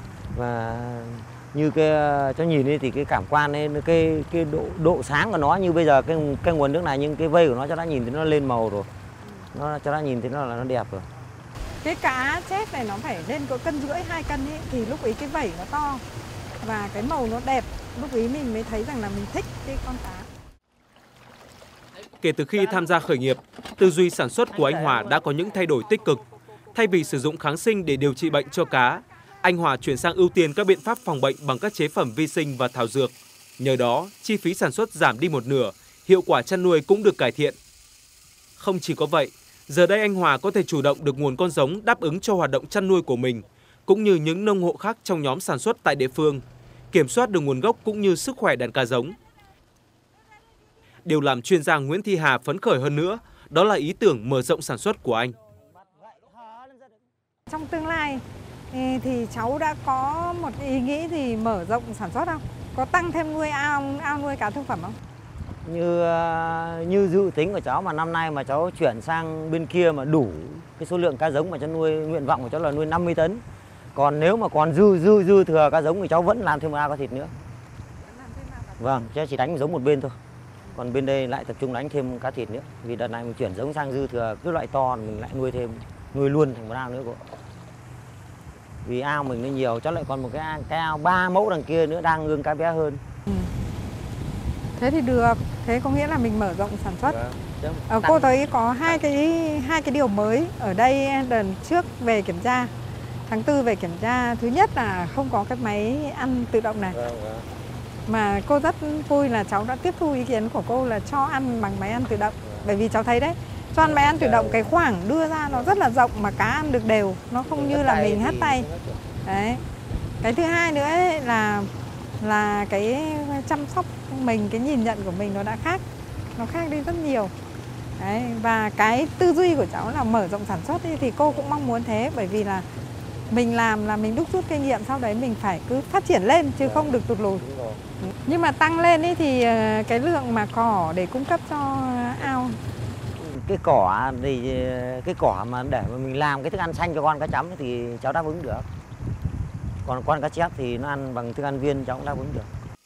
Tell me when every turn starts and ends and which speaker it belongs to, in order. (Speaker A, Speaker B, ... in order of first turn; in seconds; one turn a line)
Speaker A: 0.3-8.9
Speaker A: 9.5-11.1
Speaker B: 11.8-16.0
Speaker B: 16.6-20.3
Speaker C: 22.2-26.2
Speaker C: 26.8-37.6
Speaker C: 38.6-49.2
Speaker C: 51.0-55.4
Speaker A: 56.0-56.9
Speaker B: 57.5-65.0
Speaker A: 65.7-73.4
Speaker A: 74.0-77.3
Speaker A: 78.6-80.2
Speaker A: 80.7-87.2
Speaker A: 88.8-93.0
Speaker B: 94.8-102.7
Speaker B: 103.3-107.0
Speaker A: 107.1-107.4
Speaker B: 108.1-118.7
Speaker A: 117.5-119.0
Speaker B: 119.2-119.6
Speaker B: 120.2-121.7
Speaker B: 122.2-125.8
Speaker B: 126.3-127.3
Speaker B: 128.0-132.7
Speaker B: 133.3-137.5
Speaker B: 138.1-142.6
Speaker A: 143.2-148.7
Speaker A: 149.8-152.5